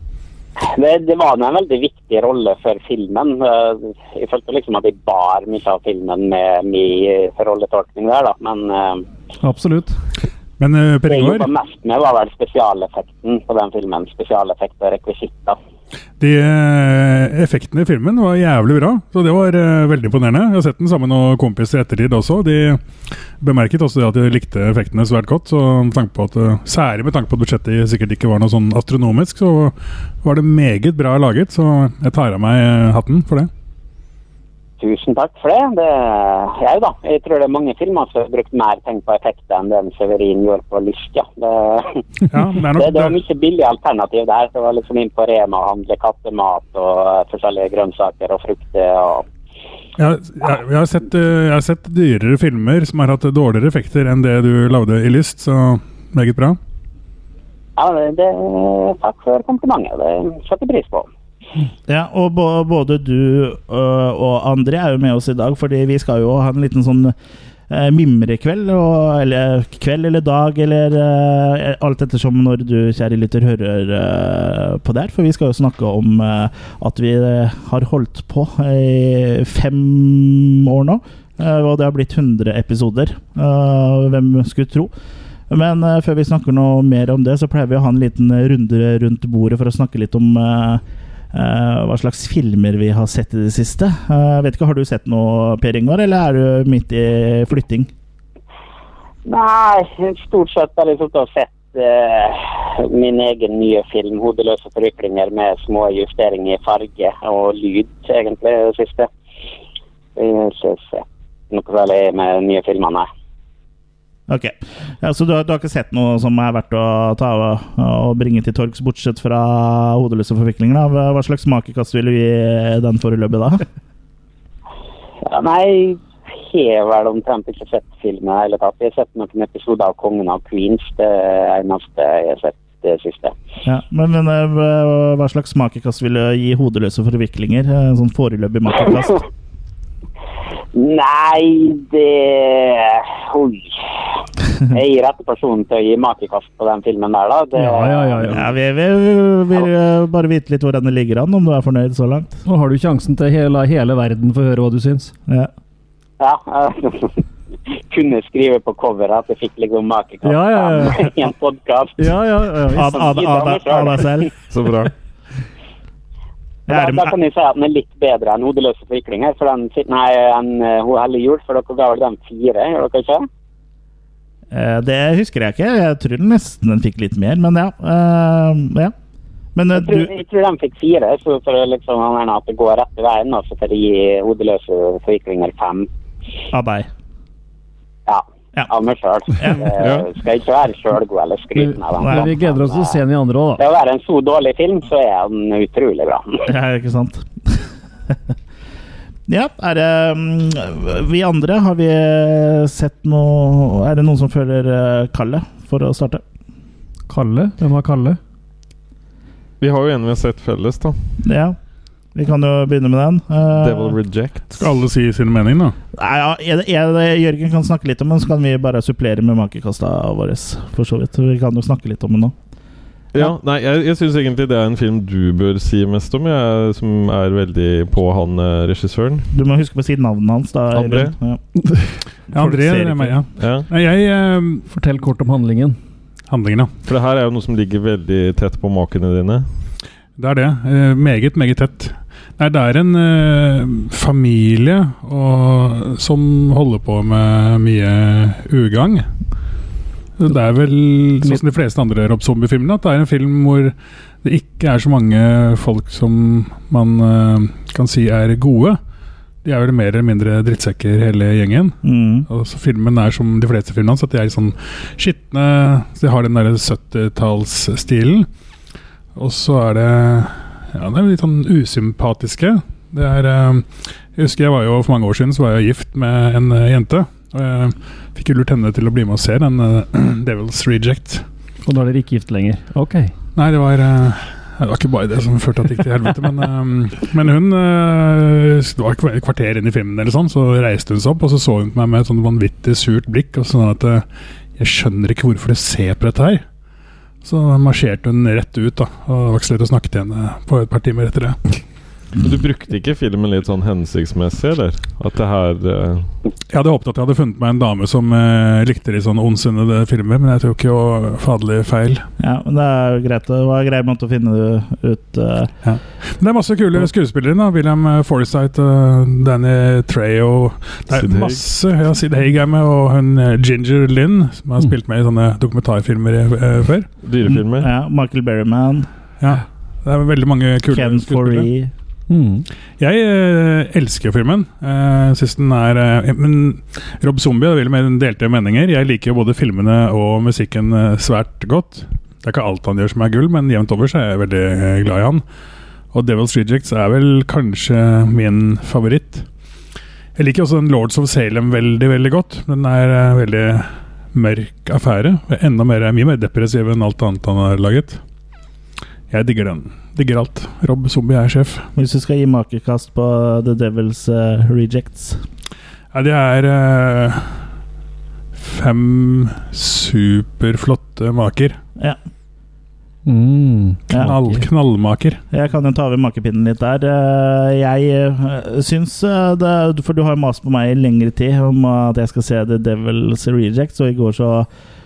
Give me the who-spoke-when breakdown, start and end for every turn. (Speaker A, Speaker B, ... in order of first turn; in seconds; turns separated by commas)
Speaker A: 0.6-9.1, Speaker B: 9.4-10.0, Speaker C: 10.6-11.5, Speaker A: 11.1-15.6, Speaker C: 16.2-22.8, Speaker C: 23.4-33.5, Speaker A: 34.8-42.0, Speaker C: 42.3-43.2, Speaker A: 42.7-49.2, Speaker C: 50.0-56.6, Speaker A: 57.8-61.1, Speaker D: 61.9-67.2, Speaker D: 67.7-84.9, Speaker D: 85.5-97.9, Speaker A: 99.3-109.1, Speaker A: 110.2-113.1, Speaker D: 114.3-123.7, Speaker A: 125.2-133.3, Speaker D: 133.7-139.2, Speaker A: 140.7-144.0, Speaker A: 144.6-148.4, Speaker B: 147.6-148.4, Speaker D: 148.3-152.3, Speaker B: 152.4-155.1, Speaker A: 156.2-162.2, Speaker B: 160.2-161.1, Speaker B: 162.0-163.0, Speaker D: 162.7-164.3, Speaker A: 162.8-164.3, Speaker E: 164.5-164.9, Speaker D: 166.7-167.1, Speaker A: 166.7-173.3, Speaker D: 174.5-178.9, Speaker D: 179.6-180.1, Speaker A: 179.8-185.9, Speaker D: 186.5-186.9, Speaker A: 188.1-192.9, Speaker E: 189.7-190.1, Speaker B: 191.6-193.6, Speaker D: 192.0-192.3, Speaker A: 193.6-196.5, Speaker D: 196.5-197.6, Speaker D: 199.3-206.2, Speaker B: 207.1-208.2, Speaker E: 209.6-211.0, Speaker D: 211.2-211.6, Speaker D: 212.2-214.0, Speaker E: 213.6-214.7, Speaker C: 214.6-215.7, Speaker D: 215.9-222.3, Speaker E: 223.1-229.3, Speaker D: 229.3-231.4, Speaker E: 230.7-231.1, Speaker D: 232.3-233.2, Speaker C: 232.3-234.7, Speaker E: 233.4-233.7, Speaker B: 234.7-235.8, Speaker C: 236.3-236.7, Speaker E: 236.8-239.4, Speaker C: 240.2-249.1, Speaker C: 250.2-258.8, Speaker C: 259.4-268.3, Speaker D: 261.8-262.3, Speaker C: 269.1-281.2, Speaker B: 281.6-283.1, Speaker C: 283.4-294.0, Speaker C: 294.6-296.4, Speaker C: 297.2-301.4, Speaker E: 302.2-306.1, Speaker C: 306.5-312.1, Speaker D: 312.2-315.5, Speaker C: 315.6-326.9, Speaker E: 320.9-321.4, Speaker E: 327.0-327.7, Speaker D: 327.5-328.9, Speaker C: 329.2-331.5, Speaker D: 330.7-331.7, Speaker B: 332.1-332.5, Speaker C: 332.8-345.2, Speaker C: 345.9-349.3, Speaker C: 350.1-358.0, Speaker C: 359.1-361.7, Speaker D: 361.8-365.2, Speaker C: 365.9-367.4, Speaker C: 368.4-371.6, Speaker B: 373.1-374.4, Speaker C: 373.9-375.2, Speaker D: 375.3-384.5